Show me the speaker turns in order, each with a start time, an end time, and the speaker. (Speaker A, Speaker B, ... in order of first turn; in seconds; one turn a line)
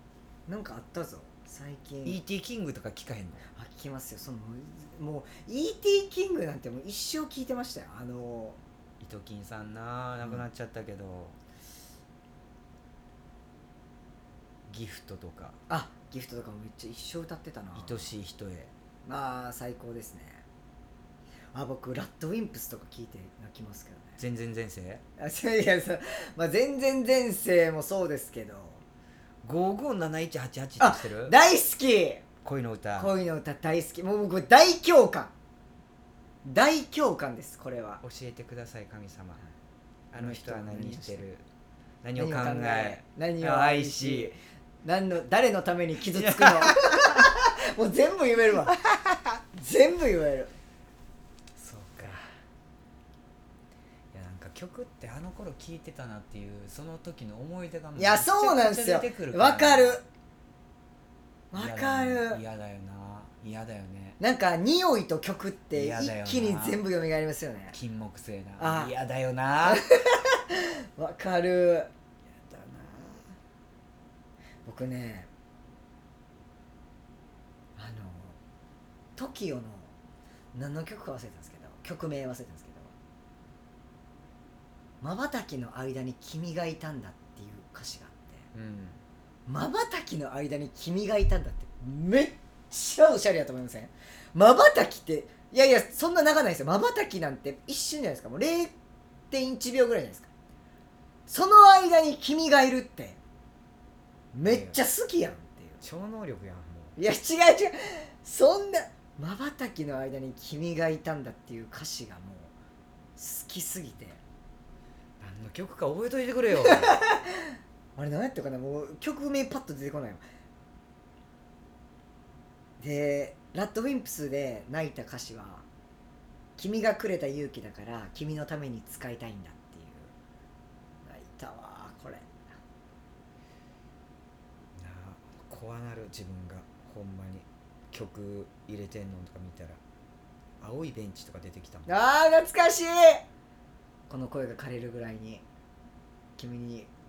Speaker A: 0.5-2.2
Speaker B: 2.0-3.4
Speaker A: 3.5-8.6
Speaker B: 9.0-11.3
Speaker B: 14.7-15.6
Speaker A: 15.7-18.1
Speaker B: 17.7-18.7
Speaker A: 19.1-20.4
Speaker A: 21.5-24.2
Speaker B: 24.2-25.0
Speaker A: 25.2-28.8
Speaker B: 29.4-31.4
Speaker A: 30.8-32.2
Speaker B: 32.4-33.1
Speaker A: 33.0-35.3
Speaker A: 36.4-38.0
Speaker B: 38.0-39.4
Speaker B: 40.1-41.4
Speaker A: 40.1-41.3
Speaker B: 42.0-44.4
Speaker A: 42.1-48.8
Speaker B: 46.1-47.2
Speaker B: 48.7-49.3
Speaker A: 49.5-50.5
Speaker B: 51.5-52.2
Speaker B: 54.1-60.0
Speaker A: 58.0-60.0
Speaker A: 61.5-62.4
Speaker B: 61.5-64.2
Speaker A: 64.2-67.8
Speaker B: 65.7-66.8
Speaker B: 67.7-69.8
Speaker A: 68.6-68.9
Speaker A: 69.6-71.9
Speaker B: 72.3-73.3
Speaker A: 74.6-75.3
Speaker A: 77.8-78.4
Speaker A: 79.2-79.9
Speaker A: 80.5-82.9
Speaker A: 85.0-88.4
Speaker B: 88.5-89.0
Speaker A: 89.5-98.7
Speaker A: 99.3-100.3
Speaker A: 101.3-103.2
Speaker A: 104.3-105.8
Speaker B: 104.4-104.8
Speaker B: 105.8-106.9
Speaker A: 107.0-112.5
Speaker A: 113.2-114.2
Speaker B: 115.2-117.1
Speaker A: 116.6-120.2
Speaker A: 122.8-125.6
Speaker A: 126.6-130.1
Speaker A: 131.0-132.4
Speaker B: 134.8-139.8
Speaker B: 140.6-141.9
Speaker A: 141.9-143.2
Speaker A: 144.1-145.4
Speaker A: 146.4-146.9